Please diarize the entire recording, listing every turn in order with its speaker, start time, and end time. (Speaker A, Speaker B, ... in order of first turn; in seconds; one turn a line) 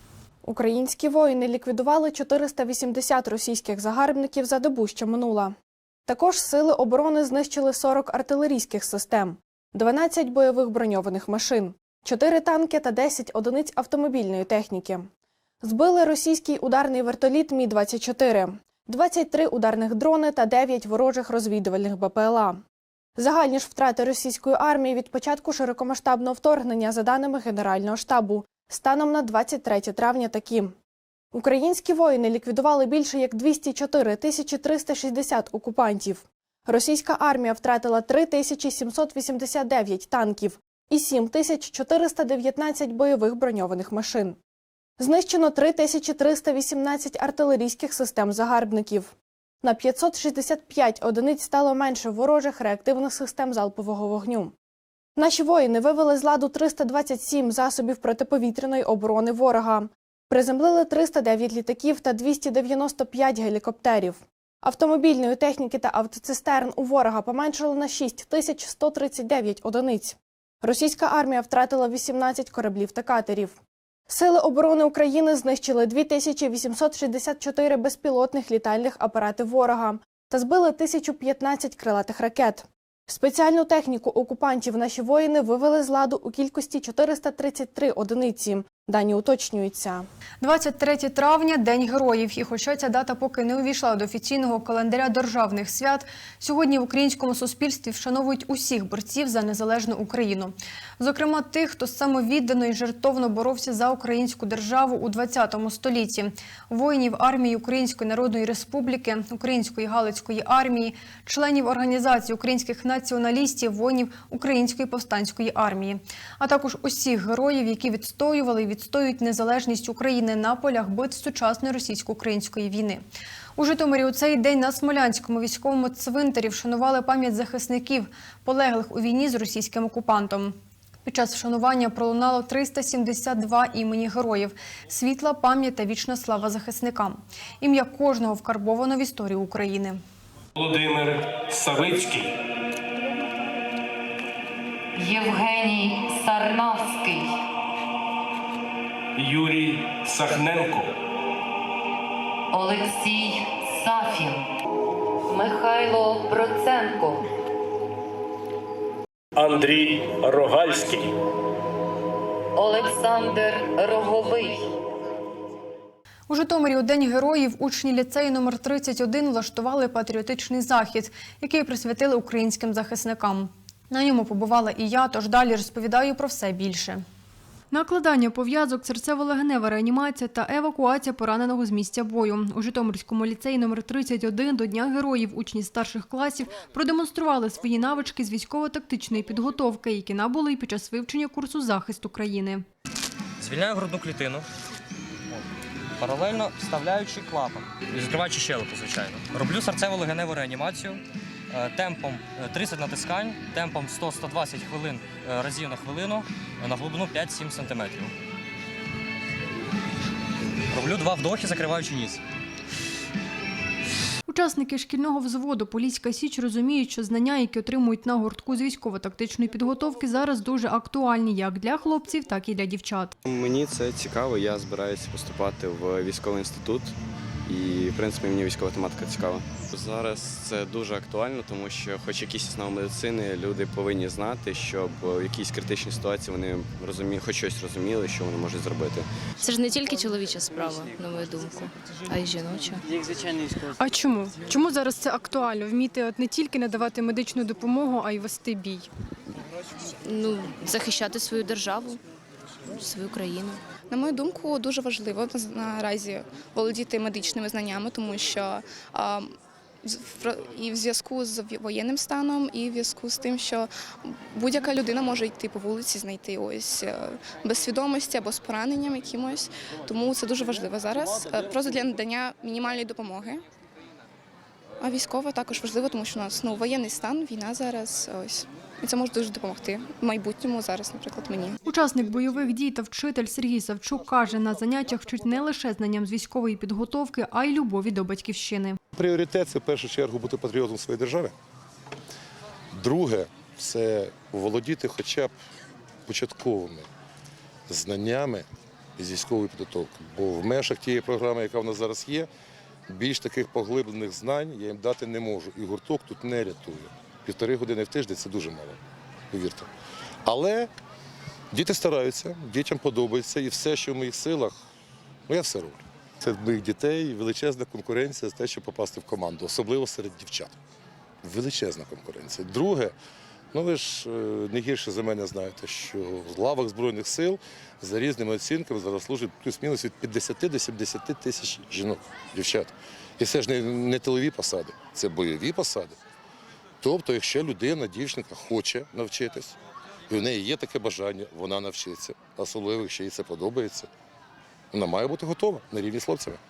Speaker A: 0.5-5.5
Speaker A: 6.1-15.1
Speaker A: 15.6-22.6
Speaker A: 23.2-30.7
Speaker A: 31.3-44.4
Speaker A: 45.0-54.5
Speaker A: 55.2-73.5
Speaker A: 74.1-90.1
Speaker B: 90.4-123.0
Speaker B: 123.6-140.0
Speaker C: 140.6-142.3
Speaker D: 144.9-147.4
Speaker C: 149.2-151.0
Speaker D: 152.5-154.4
Speaker D: 155.3-157.2
Speaker C: 159.3-161.2
Speaker D: 162.6-164.7
Speaker B: 166.3-177.0
Speaker B: 177.7-192.7
Speaker E: 193.4-194.5
Speaker E: 196.0-208.1
Speaker E: 210.7-212.2
Speaker B: 214.3-223.2
Speaker F: 223.3-226.9
Speaker F: 227.5-239.1
Speaker G: 239.4-242.8
Speaker B: 243.8-248.9
Speaker G: 250.0-252.0
Speaker G: 252.8-253.6
Speaker H: 253.9-259.3
Speaker H: 259.8-273.4
Speaker H: 274.8-281.6
Speaker B: 281.7-288.8
Speaker I: 288.9-291.3
Speaker I: 292.7-295.3
Speaker I: 296.1-296.9
Speaker I: 297.7-298.5
Speaker I: 299.0-302.3
Speaker I: 302.9-308.8
Speaker I: 309.3-309.7
Speaker I: 310.2-310.7
Speaker I: 311.5-314.6
Speaker I: 315.3-320.6
Speaker I: 321.2-322.9
Speaker I: 323.5-336.0
Speaker I: 336.8-339.6
Speaker I: 340.1-343.9
Speaker I: 344.7-346.4